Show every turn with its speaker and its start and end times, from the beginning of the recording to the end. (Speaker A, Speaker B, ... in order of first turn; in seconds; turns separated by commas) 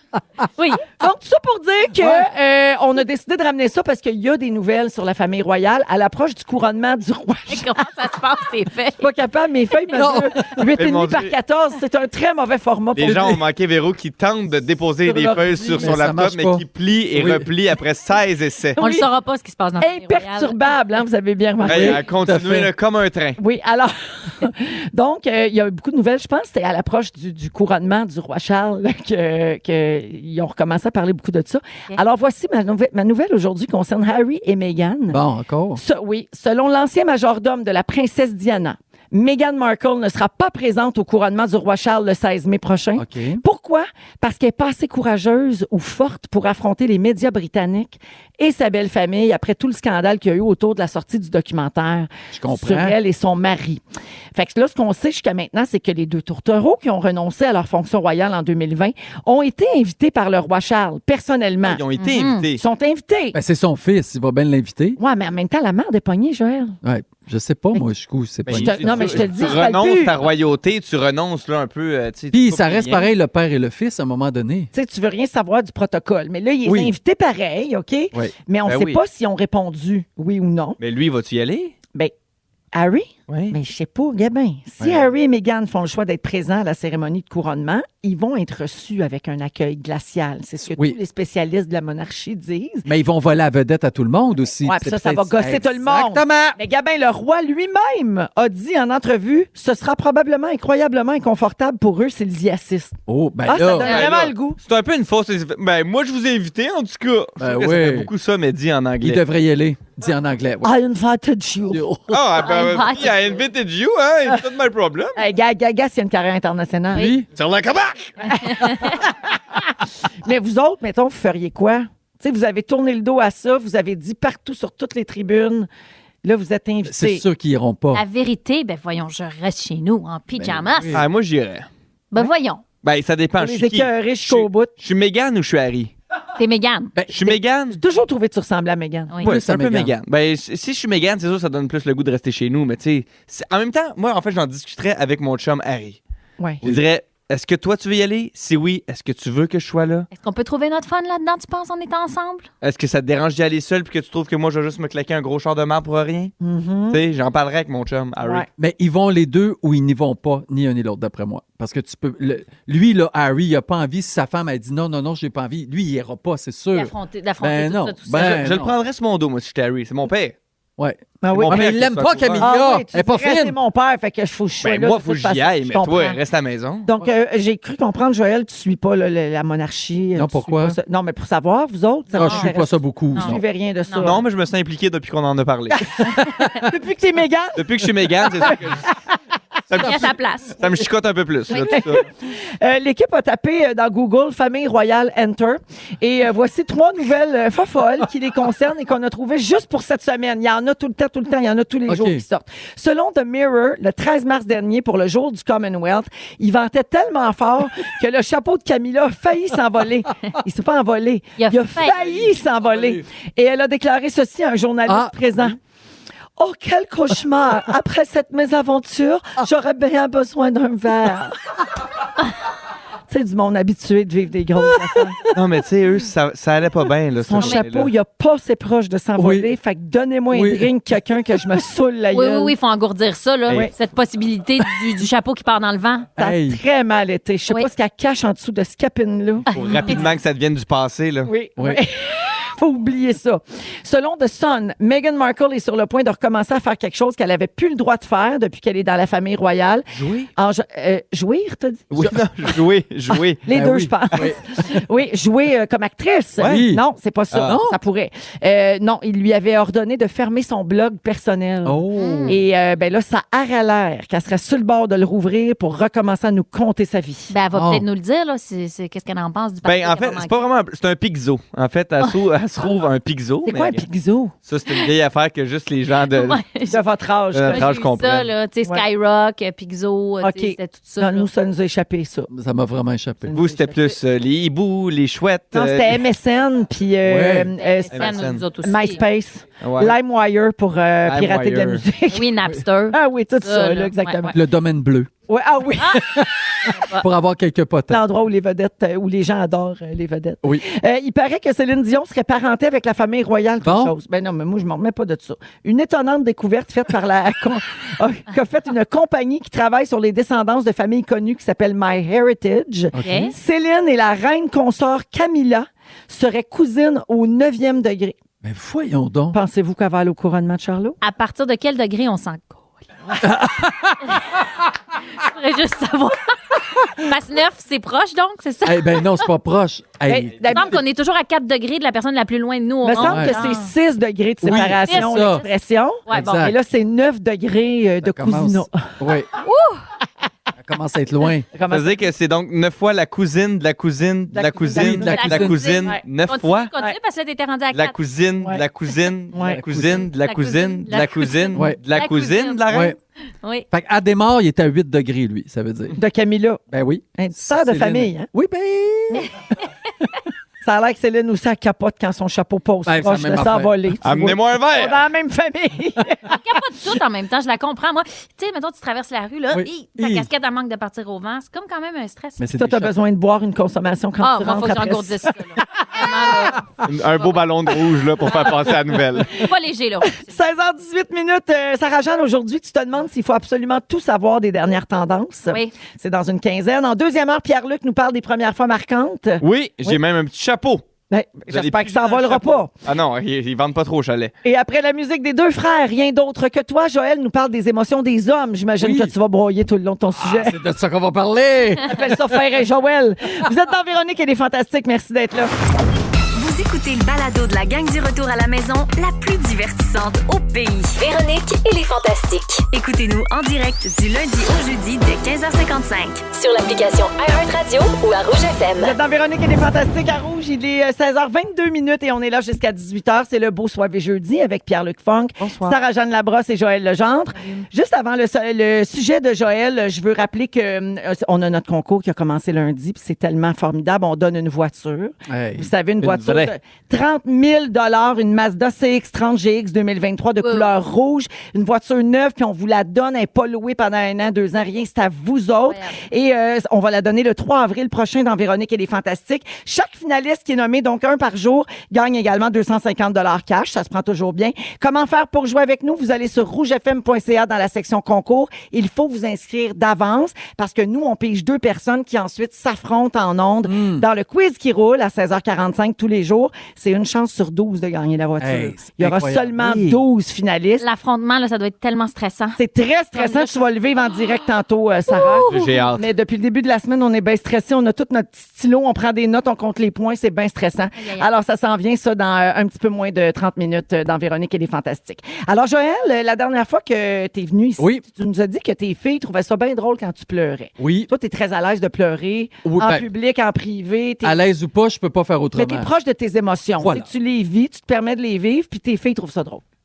Speaker A: 0.6-0.8, Speaker B: 1.0-7.7, Speaker A: 7.5-9.0, Speaker B: 9.0-13.4, Speaker C: 9.9-10.7, Speaker D: 10.8-11.3, Speaker D: 12.9-18.8, Speaker B: 15.0-15.9, Speaker C: 15.7-17.5, Speaker B: 18.8-19.1, Speaker A: 18.8-20.6, Speaker B: 19.8-22.0, Speaker C: 21.6-22.7, Speaker D: 21.6-23.4, Speaker B: 23.4-35.2, Speaker C: 35.1-35.8, Speaker B: 35.8-53.8, Speaker C: 43.0-43.4, Speaker C: 52.3-53.0, Speaker B: 54.3-61.8, Speaker D: 61.6-62.6, Speaker A: 62.0-62.5, Speaker B: 62.6-63.4, Speaker C: 63.3-65.0, Speaker B: 65.0-66.8, Speaker C: 66.8-69.5, Speaker D: 68.5-73.1, Speaker B: 68.5-70.1, Speaker C: 72.3-74.7, Speaker B: 74.7-80.8, Speaker C: 76.6-76.9, Speaker D: 78.7-79.0, Speaker D: 80.8-81.7, Speaker B: 82.7-92.8, Speaker D: 83.3-83.5, Speaker C: 92.8-96.6, Speaker B: 94.6-104.6, Speaker C: 103.1-104.0, Speaker D: 103.8-109.2, Speaker C: 107.4-108.1, Speaker C: 109.0-110.7, Speaker B: 110.6-111.8, Speaker C: 111.7-112.4, Speaker D: 112.1-115.2, Speaker A: 112.4-113.4, Speaker B: 115.2-117.1, Speaker C: 116.9-117.4, Speaker D: 117.4-118.0, Speaker B: 118.2-125.7, Speaker B: 126.2-127.2, Speaker C: 126.8-128.0, Speaker A: 127.9-131.0, Speaker C: 130.4-131.1, Speaker D: 130.9-131.7, Speaker A: 132.1-132.6, Speaker D: 132.8-135.9, Speaker B: 133.4-134.7, Speaker A: 136.4-136.9, Speaker C: 136.9-137.3, Speaker D: 137.1-137.8, Speaker B: 137.3-139.2, Speaker C: 139.2-139.9, Speaker D: 139.2-146.0, Speaker D: 146.6-150.1, Speaker A: 150.1-152.5, Speaker D: 152.6-156.3, Speaker B: 156.4-157.0, Speaker D: 156.9-158.4, Speaker B: 158.2-158.5, Speaker C: 158.6-168.7, Speaker A: 166.7-168.5, Speaker D: 168.2-170.3, Speaker C: 170.8-173.6, Speaker B: 171.2-171.7, Speaker D: 171.3-172.5, Speaker B: 172.4-176.2, Speaker D: 174.6-176.9, Speaker B: 176.8-184.2, Speaker C: 180.2-180.8, Speaker A: 182.2-182.5, Speaker C: 182.2-183.4, Speaker D: 184.0-186.0, Speaker B: 186.6-187.6, Speaker D: 187.6-189.0, Speaker D: 189.7-192.0, Speaker A: 189.8-190.6, Speaker A: 191.5-191.8, Speaker B: 191.5-215.6, Speaker C: 201.9-202.2, Speaker A: 211.4-212.0, Speaker C: 211.9-213.0, Speaker C: 214.9-215.5, Speaker B: 216.4-221.4, Speaker B: 223.1-225.2, Speaker D: 225.3-227.9, Speaker B: 227.2-232.5, Speaker C: 229.2-229.5, Speaker C: 230.3-230.7, Speaker A: 232.1-236.1, Speaker C: 236.2-236.6, Speaker B: 236.2-239.5, Speaker A: 239.5-240.1, Speaker D: 239.5-241.3, Speaker B: 241.2-251.9, Speaker D: 251.9-253.4, Speaker B: 253.1-267.3, Speaker C: 253.5-254.6, Speaker C: 256.4-256.8, Speaker C: 257.4-257.8, Speaker C: 261.6-262.4, Speaker A: 261.9-262.3, Speaker A: 267.3-270.4, Speaker C: 267.5-267.8, Speaker D: 269.6-273.8, Speaker B: 273.4-274.3, Speaker D: 274.4-276.4, Speaker A: 276.1-276.8, Speaker B: 276.7-277.7, Speaker D: 277.3-278.3, Speaker A: 277.5-281.3, Speaker B: 280.2-282.3, Speaker C: 282.3-283.3, Speaker B: 283.3-283.8, Speaker D: 283.3-286.0, Speaker B: 285.5-292.3, Speaker C: 287.1-287.5, Speaker A: 287.6-289.0, Speaker D: 287.9-288.4, Speaker D: 289.6-289.9, Speaker D: 291.1-291.8, Speaker A: 292.1-294.3, Speaker B: 292.9-294.4, Speaker C: 294.3-295.1, Speaker B: 295.3-296.0, Speaker C: 295.9-298.0, Speaker A: 296.6-297.1, Speaker B: 297.9-318.1, Speaker C: 303.6-303.9, Speaker C: 312.9-313.3, Speaker A: 313.0-313.3, Speaker C: 318.4-319.4, Speaker B: 319.3-321.0, Speaker A: 321.0-323.1, Speaker C: 323.2-324.2, Speaker A: 324.1-324.4, Speaker A: 325.1-329.3, Speaker C: 328.6-330.8, Speaker B: 330.1-330.8, Speaker A: 330.4-333.7, Speaker B: 332.8-338.9, Speaker C: 333.0-333.4, Speaker C: 334.4-335.4, Speaker A: 334.5-335.5, Speaker A: 336.1-336.5, Speaker C: 336.1-336.6, Speaker C: 338.0-339.3, Speaker A: 339.4-339.8, Speaker C: 340.6-341.5, Speaker B: 341.5-342.1, Speaker D: 341.7-346.7, Speaker B: 344.3-345.2, Speaker C: 344.7-345.6, Speaker A: 345.1-347.9, Speaker D: 347.7-352.9, Speaker B: 349.3-349.6, Speaker C: 349.4-350.1, Speaker A: 350.2-352.6, Speaker C: 352.7-353.0, Speaker C: 353.7-355.9, Speaker B: 355.9-356.6, Speaker C: 356.7-359.3, Speaker B: 357.2-358.3, Speaker B: 360.6-366.4, Speaker C: 362.9-363.7, Speaker D: 364.0-365.0, Speaker A: 366.3-372.4, Speaker C: 369.5-370.3, Speaker C: 372.4-372.9, Speaker B: 372.5-376.0, Speaker A: 374.2-377.4, Speaker D: 376.8-379.4, Speaker A: 378.2-378.6, Speaker A: 379.3-380.4, Speaker B: 380.2-390.0, Speaker A: 385.5-385.7, Speaker D: 389.4-390.9, Speaker B: 391.1-392.7, Speaker D: 391.5-394.3, Speaker B: 394.4-400.6, Speaker C: 398.8-399.1, Speaker C: 400.2-402.4, Speaker B: 401.9-405.5, Speaker E: 406.3-418.9, Speaker B: 418.8-470.8, Speaker D: 425.4-425.8, Speaker A: 427.3-427.6, Speaker C: 435.3-435.7, Speaker D: 436.0-436.5, Speaker A: 440.4-440.7, Speaker A: 445.7-446.0, Speaker C: 463.6-464.1, Speaker C: 468.4-470.0, Speaker A: 470.8-472.6, Speaker B: 472.6-494.4, Speaker A: 473.1-473.6, Speaker A: 475.1-475.8, Speaker D: 475.4-476.1, Speaker A: 480.9-481.3, Speaker C: 487.8-488.0, Speaker C: 490.8-491.1, Speaker C: 492.6-493.1, Speaker C: 494.2-495.9, Speaker B: 495.5-499.6, Speaker C: 496.8-497.1